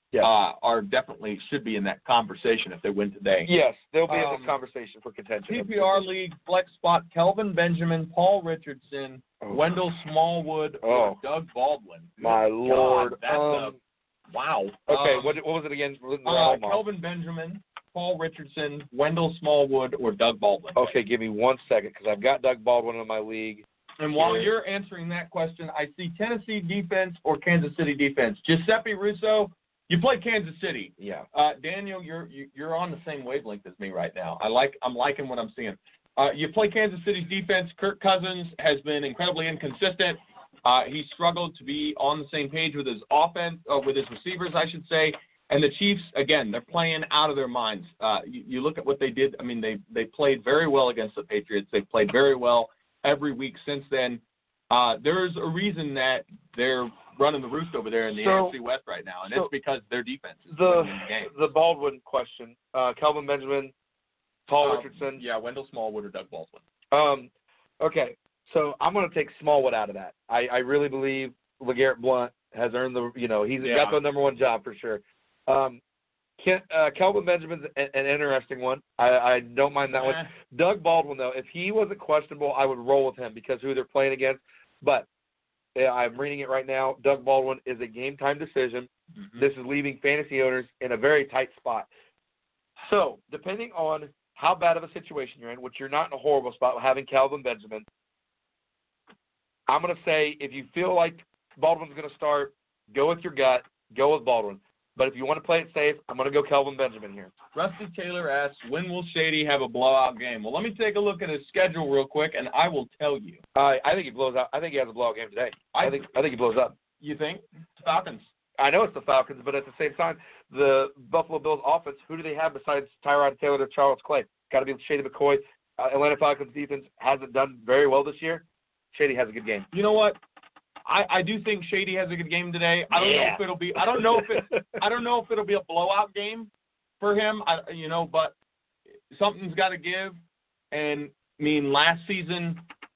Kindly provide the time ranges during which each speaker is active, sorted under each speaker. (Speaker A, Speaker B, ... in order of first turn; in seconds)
Speaker A: 0.2-3.5, 4.1-4.5, 5.5-13.7, 14.3-15.4, 16.2-20.9, 24.0-61.4, 64.6-66.6, 73.6-74.0, 79.9-80.3, 89.2-89.4, 107.5-113.4, 115.7-116.1, 117.0-118.2, 129.7-130.2, 130.8-136.5, 137.0-138.3, 139.1-140.2, 140.7-142.6
Speaker B: 3.5-6.0, 9.4-9.8, 10.8-11.2, 12.2-13.8, 14.9-16.8, 20.8-23.6, 24.2-24.5, 31.0-31.2, 58.1-58.5, 60.5-63.7, 64.5-65.2, 66.9-75.8, 76.4-85.1, 85.8-91.9, 92.8-97.8, 99.7-107.3, 113.5-116.7, 118.6-129.7, 132.9-134.8